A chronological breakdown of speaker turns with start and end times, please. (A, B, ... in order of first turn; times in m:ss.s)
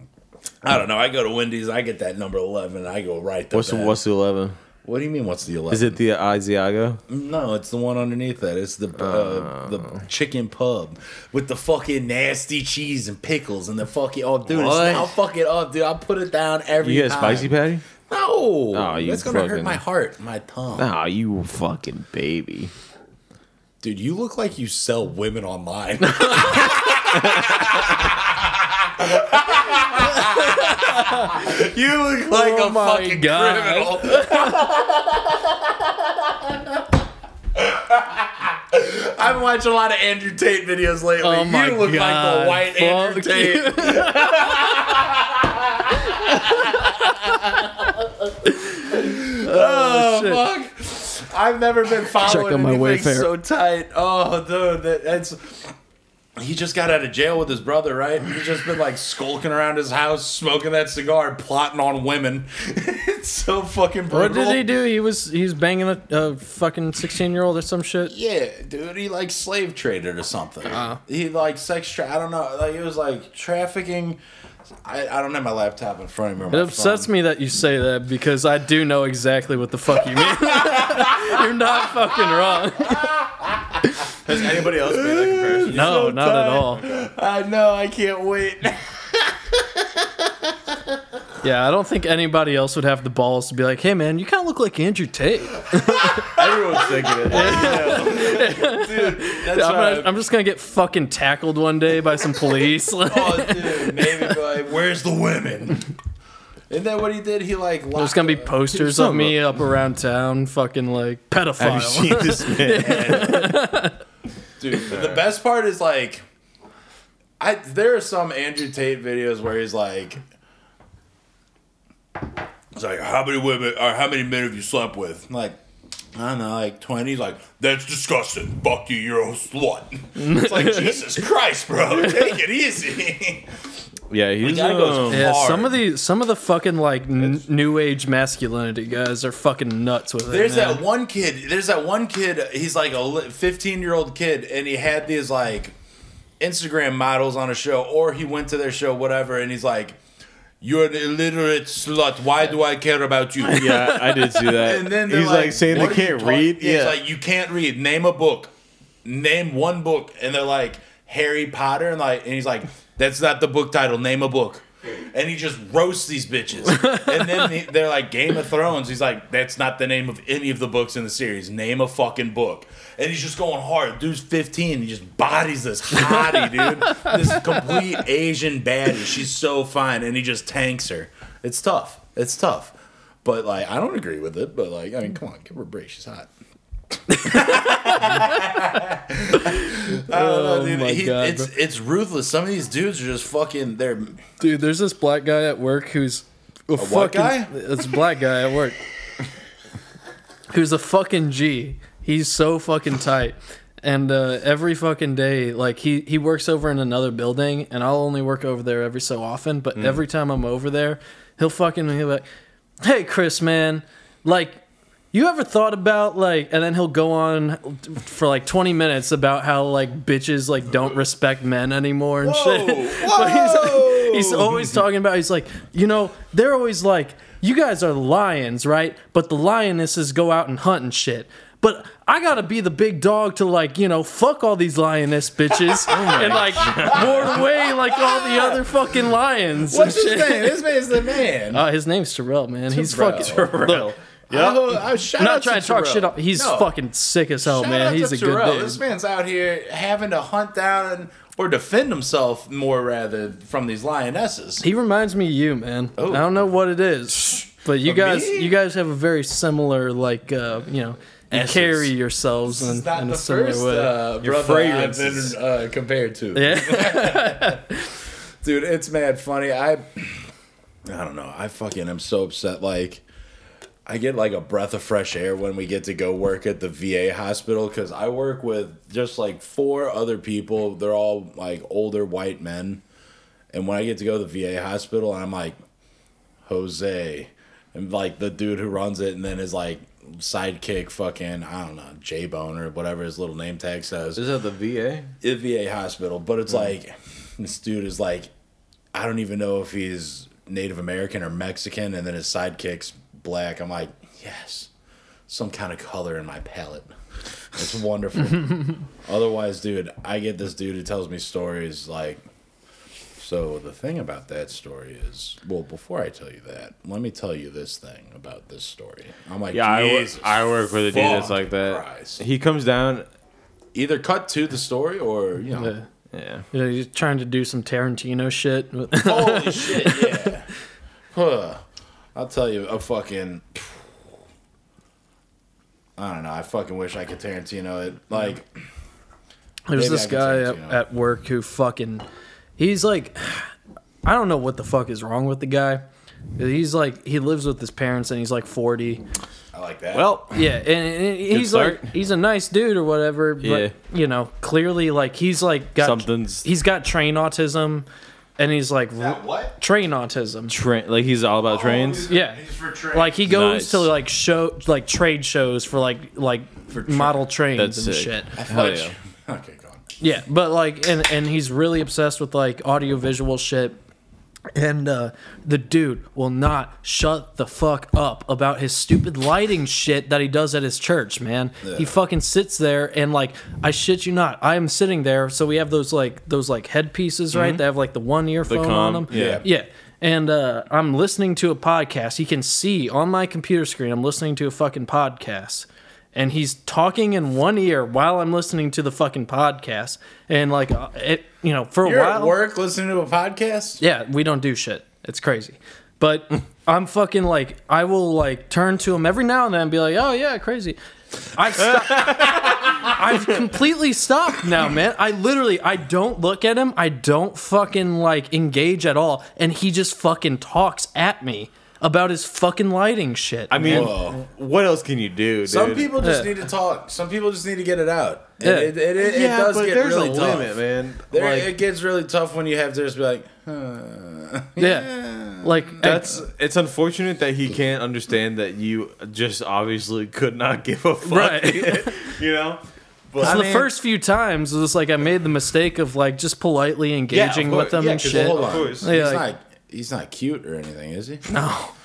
0:00.6-0:04.0 A
0:03.5-0:04.6 B
0:04.8-0:06.0 A
0:05.7-0:07.0 B
0:07.1-0:17.5 A
0:09.0-0:10.0 B
0:14.4-0:15.1 B
0:16.8-0:17.8 B
0:18.1-0:20.9 A
0:18.7-0:19.8 B
0:20.8-0:22.7 B
0:23.8-0:36.7 A
0:26.2-0:26.5 C
0:30.4-0:31.4 C
0:32.3-0:34.6 C
0:37.5-0:55.7 A
0:41.2-0:44.5 C
0:48.6-0:50.4 C
0:52.1-0:53.3 C
0:56.4-1:04.7 A
1:04.1-1:08.1 C
1:08.0-1:14.2 A
1:10.7-1:11.0 C
1:14.8-1:17.1 A
1:16.5-1:23.1 C
1:20.1-1:30.8 A
1:24.2-1:26.1 B
1:25.7-1:26.8 C
1:31.4-1:36.2 C
1:35.7-1:40.1 A
1:36.3-1:38.5 B
1:37.3-1:44.2 C
1:43.0-1:45.9 A
1:46.7-1:48.5 A
1:48.0-1:54.0 C
1:48.7-1:49.4 B
1:51.6-1:53.6 B
1:52.8-1:53.4 A
1:54.6-1:56.2 A
1:54.9-1:55.2 B
1:57.4-2:00.2 A
2:02.7-2:05.6 A
2:06.1-2:13.5 A
2:10.2-2:11.0 C
2:14.1-2:15.3 B
2:14.4-2:15.8 A
2:15.1-2:20.8 C
2:20.3-2:25.7 A
2:26.4-2:30.0 A
2:30.6-2:33.9 A
2:33.5-2:37.0 B
2:34.5-2:38.5 A
2:39.0-3:06.3 A
2:56.9-2:57.1 C
3:07.1-3:14.2 A
3:07.3-3:08.3 C
3:09.4-3:11.5 C
3:14.4-3:18.8 C
3:16.8-3:17.5 A
3:20.5-3:32.2 C
3:32.8-3:34.6 C
3:35.1-4:00.6 C
3:42.2-3:44.8 A
3:55.7-3:58.8 A
3:55.9-3:57.4 B
3:59.7-4:01.6 A
4:01.5-4:04.0 C
4:02.7-4:06.7 A
4:04.3-4:04.7 B
4:05.2-4:08.8 C
4:07.4-4:14.6 A
4:14.6-4:23.9 C
4:16.0-4:16.4 A
4:17.3-4:18.6 A
4:21.3-4:21.9 A
4:22.4-4:27.6 A
4:24.2-4:25.4 B
4:26.3-4:27.9 C
4:28.4-4:30.3 A
4:30.8-4:33.0 A
4:33.8-4:42.8 A
4:43.5-4:45.6 A
4:46.4-4:54.2 A
4:54.2-4:55.1 B
4:55.2-4:58.3 A
4:58.9-5:04.7 A
5:05.3-5:06.9 A
5:07.5-5:12.2 A
5:13.2-5:22.2 A
5:19.5-5:23.1 B
5:23.7-5:25.7 A
5:25.5-5:25.9 C
5:26.1-5:26.4 B
5:26.5-5:30.3 C
5:28.9-5:30.5 A
5:31.1-5:31.6 A
5:32.1-5:33.9 A
5:36.0-5:38.6 A
5:39.7-5:42.0 C
5:39.7-5:40.8 A
5:42.6-5:43.5 C
5:44.0-5:45.8 C
5:46.4-5:49.0 C
5:49.5-5:50.1 A
5:49.9-5:50.4 B
5:50.3-5:57.9 C
5:51.3-5:51.9 B
5:53.4-5:53.7 B
5:55.8-5:56.4 B
5:58.4-6:00.5 C
5:59.0-5:59.5 A
6:00.5-6:02.1 B
6:01.5-6:03.2 A
6:02.1-6:02.4 C
6:02.9-6:08.4 C
6:03.2-6:03.9 B
6:06.7-6:07.2 A
6:07.6-6:08.9 B
6:08.4-6:09.8 A
6:10.0-6:13.8 C
6:14.5-6:42.4 C
6:21.6-6:21.9 A
6:27.3-6:27.6 B
6:28.5-6:29.4 B
6:29.1-6:29.5 A
6:41.8-6:43.8 A
6:43.8-6:50.8 C
6:51.3-7:03.9 C
7:03.5-7:05.9 B
7:03.6-7:04.2 A
7:05.4-7:10.6 A
7:06.0-7:06.3 C
7:08.4-7:08.7 C
7:08.9-7:11.1 B
7:11.1-7:16.2 A
7:11.1-7:11.5 C
7:14.6-7:16.2 C
7:15.8-7:23.4 B
7:21.0-7:22.2 C
7:23.2-7:23.7 A
7:23.2-7:29.2 C
7:27.1-7:28.9 B
7:27.3-7:31.2 A
7:31.3-7:31.7 C